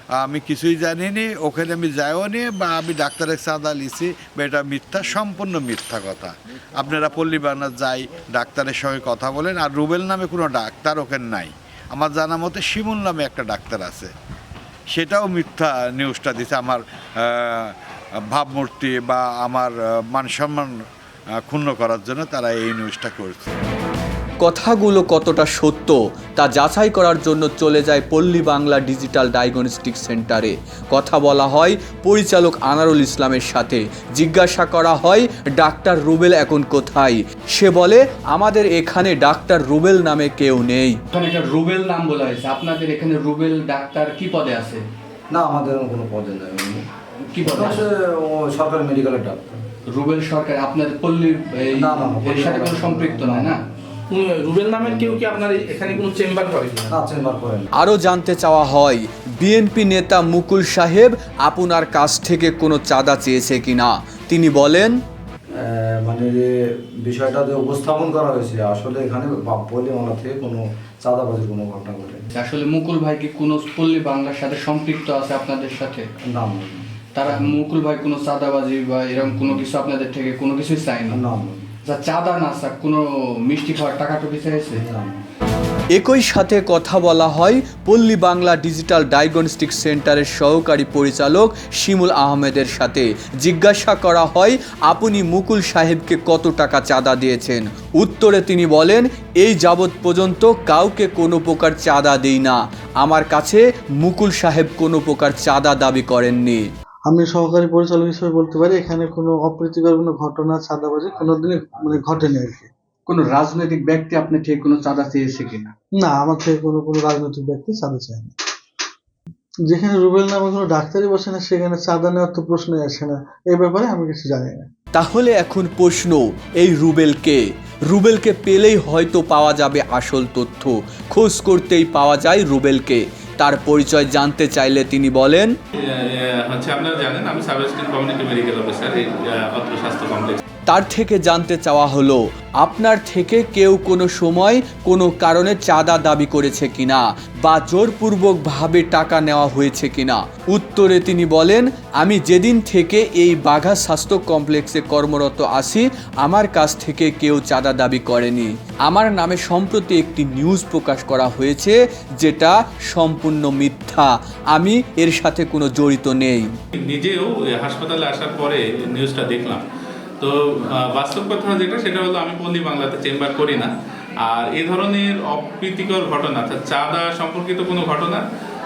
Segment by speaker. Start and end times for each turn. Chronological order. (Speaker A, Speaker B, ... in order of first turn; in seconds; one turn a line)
Speaker A: 0.2-14.1
Speaker A: 14.9-17.7
Speaker A: 18.3-20.7
Speaker A: 21.4-23.6
Speaker B: 24.4-41.0
Speaker C: 41.1-44.8
Speaker D: 45.3-46.8
Speaker C: 47.3-47.8
Speaker D: 47.4-49.6
Speaker C: 49.9-53.6
Speaker D: 51.7-53.6
Speaker E: 54.1-57.0
Speaker D: 54.8-56.2
Speaker D: 56.9-57.7
Speaker B: 57.8-65.0
Speaker D: 65.5-72.2
Speaker C: 72.3-76.1
Speaker D: 76.2-77.6
Speaker C: 77.2-81.2
Speaker D: 79.2-79.6
Speaker D: 81.1-81.7
Speaker C: 81.9-84.8
Speaker D: 84.7-85.2
Speaker B: 85.9-106.6
Speaker F: 107.1-112.7
Speaker D: 111.1-112.3
Speaker C: 113.1-115.7
Speaker F: 115.9-118.3
Speaker F: 119.7-124.7
Speaker B: 124.9-135.5
Speaker G: 135.9-140.4
Speaker B: 140.7-166.5
Speaker G: 166.8-169.6
Speaker G: 170.2-173.7
Speaker G: 174.2-178.2